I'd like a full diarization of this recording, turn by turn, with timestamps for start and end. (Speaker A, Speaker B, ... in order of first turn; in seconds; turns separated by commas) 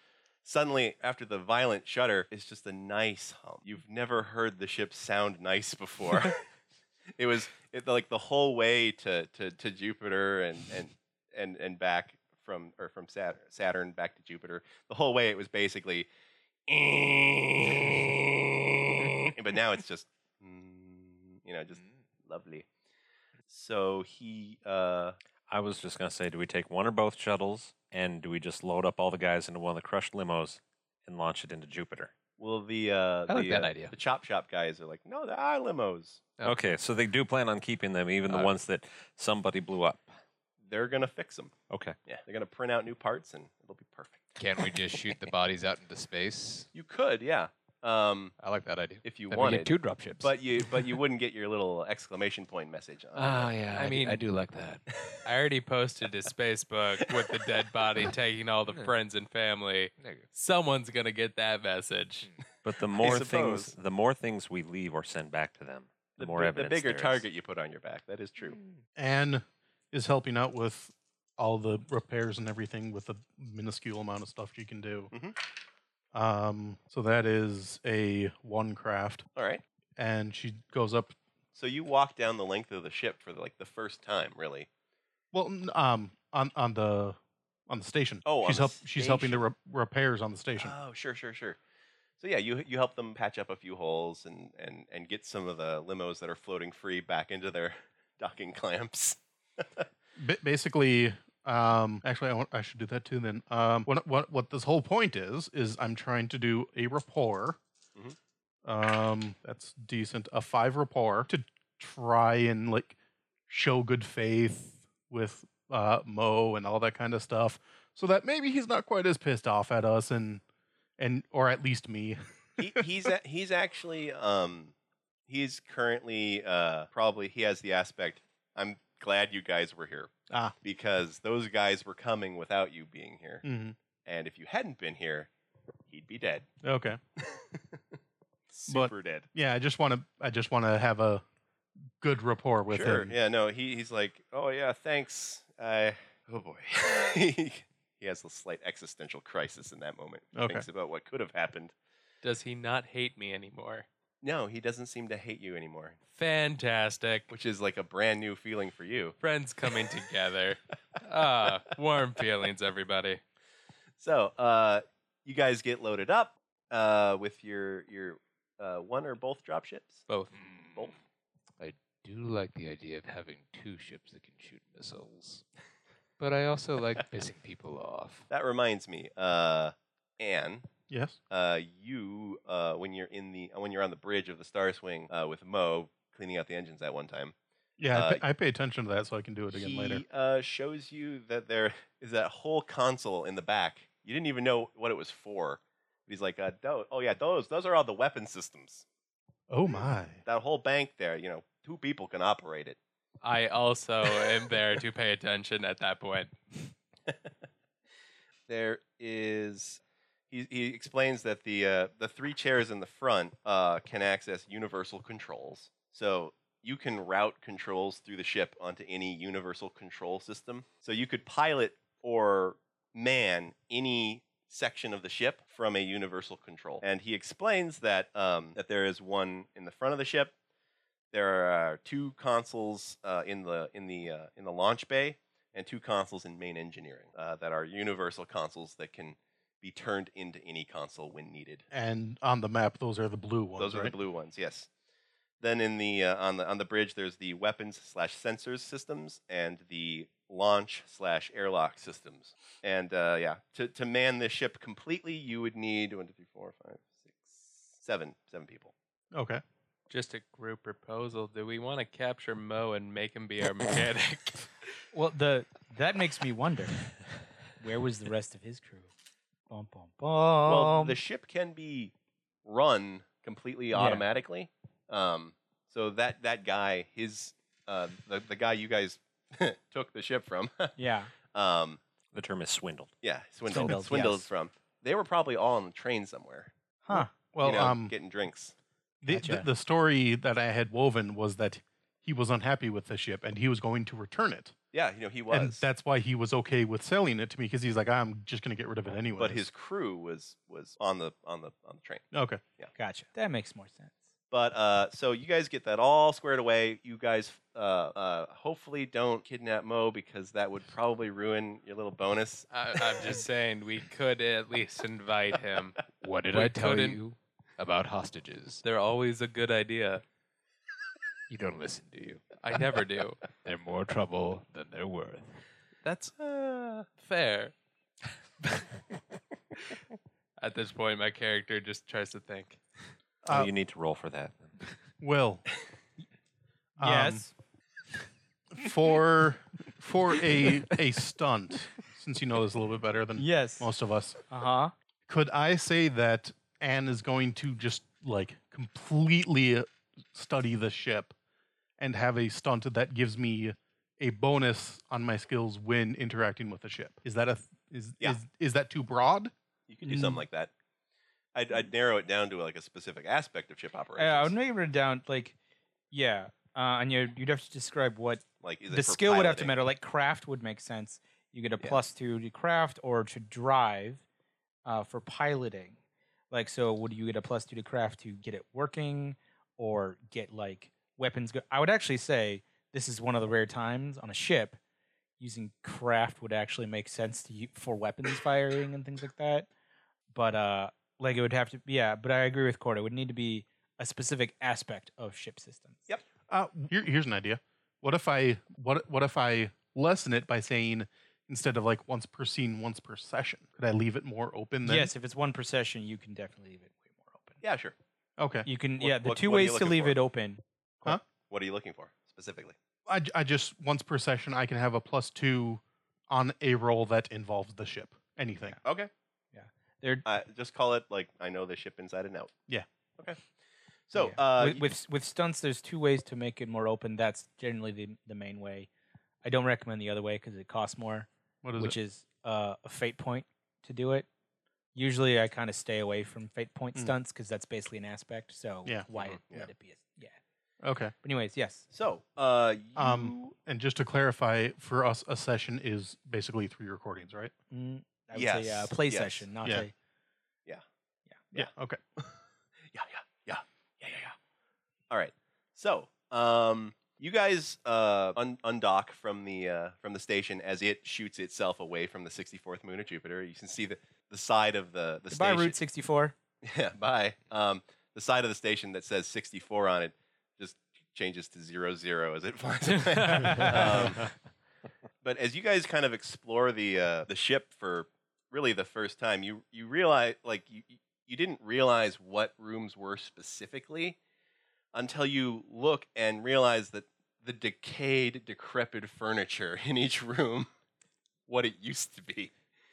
Speaker A: 0.4-6.4, Speaker A: 7.2-16.1, Speaker A: 16.7-22.7, Speaker A: 23.5-25.1, Speaker B: 25.5-32.1, Speaker A: 32.4-36.3, Speaker C: 33.3-33.9, Speaker B: 36.4-40.1, Speaker C: 38.3-38.5, Speaker A: 40.6-44.4, Speaker B: 41.7-42.0, Speaker C: 44.4-46.7, Speaker A: 46.7-48.3, Speaker C: 48.4-51.0, Speaker A: 49.0-53.5, Speaker C: 53.1-54.8, Speaker D: 53.7-54.2, Speaker D: 55.2-62.3, Speaker C: 60.0-60.2, Speaker B: 62.6-67.2, Speaker A: 63.0-63.7, Speaker A: 66.2-68.6, Speaker E: 69.0-75.1, Speaker A: 75.1-75.4, Speaker E: 76.1-79.2, Speaker A: 79.3-79.6, Speaker E: 80.0-81.2, Speaker A: 81.5-84.7, Speaker E: 85.3-90.7, Speaker A: 88.2-89.4, Speaker A: 90.6-91.6, Speaker A: 92.2-99.8, Speaker E: 100.2-107.6, Speaker E: 108.6-113.0, Speaker E: 113.5-120.4, Speaker E: 121.0-122.7, Speaker A: 122.6-124.7, Speaker A: 125.3-133.4, Speaker E: 130.3-130.5, Speaker E: 133.4-133.8, Speaker A: 134.0-135.3, Speaker A: 135.9-136.5, Speaker E: 136.6-137.0, Speaker A: 137.2-137.8, Speaker A: 138.5-139.3, Speaker E: 138.7-141.2, Speaker E: 142.0-143.1, Speaker A: 142.7-151.7, Speaker E: 150.3-150.7, Speaker D: 152.2-153.8, Speaker A: 154.2-156.0, Speaker D: 156.2-157.3, Speaker A: 157.3-159.2, Speaker D: 159.2-163.2, Speaker A: 164.0-170.0, Speaker D: 170.1-170.3, Speaker A: 170.7-171.0, Speaker C: 171.6-175.4, Speaker C: 176.2-178.3, Speaker A: 178.3-180.7, Speaker E: 180.9-181.2, Speaker A: 181.3-187.3, Speaker E: 187.8-190.0, Speaker A: 187.9-188.2, Speaker A: 189.5-198.8, Speaker E: 199.5-200.2, Speaker A: 199.7-202.8, Speaker D: 203.2-206.6, Speaker A: 208.5-230.3, Speaker A: 231.1-241.6, Speaker E: 241.7-243.9, Speaker A: 243.6-244.7, Speaker A: 245.4-258.7, Speaker E: 259.1-259.4, Speaker D: 259.9-264.5, Speaker F: 264.9-266.9, Speaker F: 267.6-268.9, Speaker F: 269.5-270.9, Speaker A: 270.4-271.9, Speaker A: 272.4-280.8, Speaker F: 273.7-274.1, Speaker F: 280.8-281.1, Speaker A: 281.3-281.8, Speaker B: 282.1-282.9, Speaker A: 283.0-286.5, Speaker F: 283.5-284.3, Speaker F: 286.8-287.1, Speaker E: 286.9-287.9, Speaker A: 287.4-288.5, Speaker E: 289.0-294.5, Speaker F: 289.1-289.5, Speaker A: 294.7-295.6, Speaker E: 295.3-299.4, Speaker A: 299.2-302.0, Speaker E: 302.1-302.4, Speaker F: 302.7-304.0, Speaker A: 304.3-313.2, Speaker D: 312.5-315.8, Speaker C: 316.0-318.6, Speaker D: 316.3-317.0, Speaker D: 318.6-320.0, Speaker C: 321.3-322.2, Speaker D: 322.4-323.2, Speaker C: 323.4-325.4, Speaker D: 325.8-326.1, Speaker A: 326.2-326.9, Speaker D: 327.0-327.5, Speaker D: 330.4-332.6, Speaker E: 333.2-333.5, Speaker B: 333.3-334.5, Speaker E: 335.0-335.4, Speaker E: 336.8-337.2, Speaker F: 336.8-337.3, Speaker E: 338.5-344.2, Speaker F: 343.2-343.7, Speaker F: 344.3-344.7, Speaker E: 345.1-351.1, Speaker E: 351.8-359.3, Speaker A: 359.7-360.5, Speaker A: 361.3-364.3, Speaker F: 364.0-365.4, Speaker F: 365.9-374.0, Speaker A: 368.4-369.5, Speaker F: 374.6-375.8, Speaker F: 376.3-384.6, Speaker F: 385.2-389.5, Speaker F: 390.1-395.8, Speaker E: 396.3-404.9, Speaker F: 404.6-407.4, Speaker A: 407.4-407.7, Speaker E: 408.2-408.5, Speaker F: 408.4-411.0, Speaker A: 408.8-410.0, Speaker A: 411.0-412.6, Speaker E: 412.9-418.6, Speaker A: 418.6-418.9, Speaker F: 419.3-420.0, Speaker A: 420.0-422.3, Speaker A: 423.9-424.7, Speaker F: 423.9-428.7, Speaker F: 429.2-434.1, Speaker E: 431.4-431.8, Speaker F: 434.7-440.2, Speaker A: 438.9-439.5, Speaker E: 440.6-440.9, Speaker F: 441.0-441.6, Speaker A: 441.7-443.2, Speaker E: 442.8-447.3, Speaker F: 447.5-449.7, Speaker A: 448.1-449.3, Speaker E: 449.4-449.7, Speaker E: 451.4-451.8, Speaker A: 452.7-454.1, Speaker A: 454.9-465.6, Speaker F: 465.1-466.1, Speaker A: 466.4-474.1, Speaker D: 472.8-473.8, Speaker A: 475.0-484.0, Speaker A: 484.7-490.5, Speaker A: 491.3-492.3